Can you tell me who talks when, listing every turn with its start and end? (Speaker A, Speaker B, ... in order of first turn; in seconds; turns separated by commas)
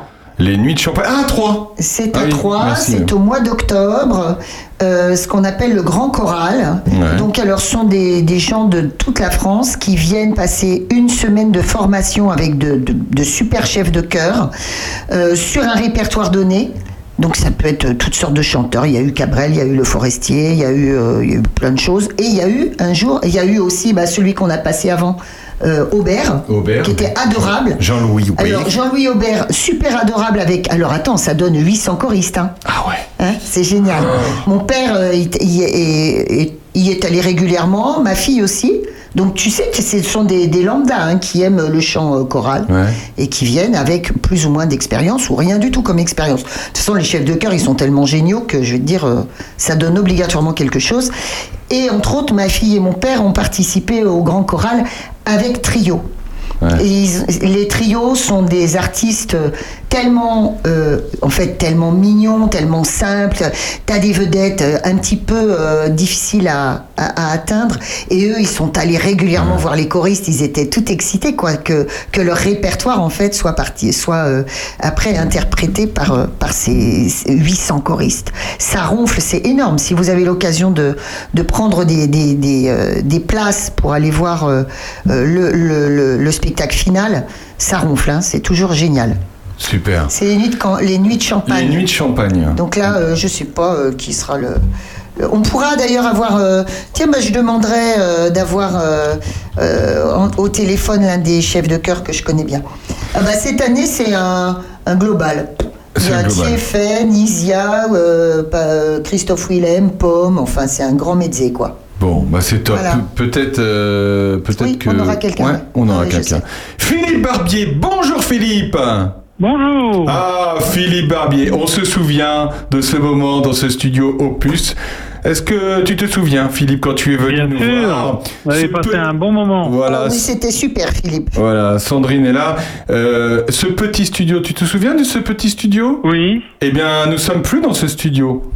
Speaker A: 0.4-3.1, Speaker B: 1.8-14.5, Speaker A: 6.9-7.3, Speaker B: 15.1-27.8, Speaker A: 26.5-28.7, Speaker B: 28.4-32.5, Speaker A: 32.7-33.0, Speaker B: 33.2-51.1, Speaker A: 42.7-43.0, Speaker B: 51.7-56.0, Speaker B: 56.7-89.2, Speaker A: 89.6-90.1, Speaker B: 90.1-91.8, Speaker A: 91.5-92.6, Speaker B: 92.5-94.6, Speaker B: 95.2-102.6, Speaker B: 103.1-111.8, Speaker A: 106.0-106.6, Speaker A: 112.0-119.2, Speaker B: 112.7-113.0, Speaker B: 114.5-116.4, Speaker C: 119.4-120.2, Speaker A: 120.0-130.3, Speaker C: 127.3-129.7, Speaker B: 129.8-131.4, Speaker A: 131.3-136.0, Speaker C: 136.0-136.4, Speaker A: 136.6-138.4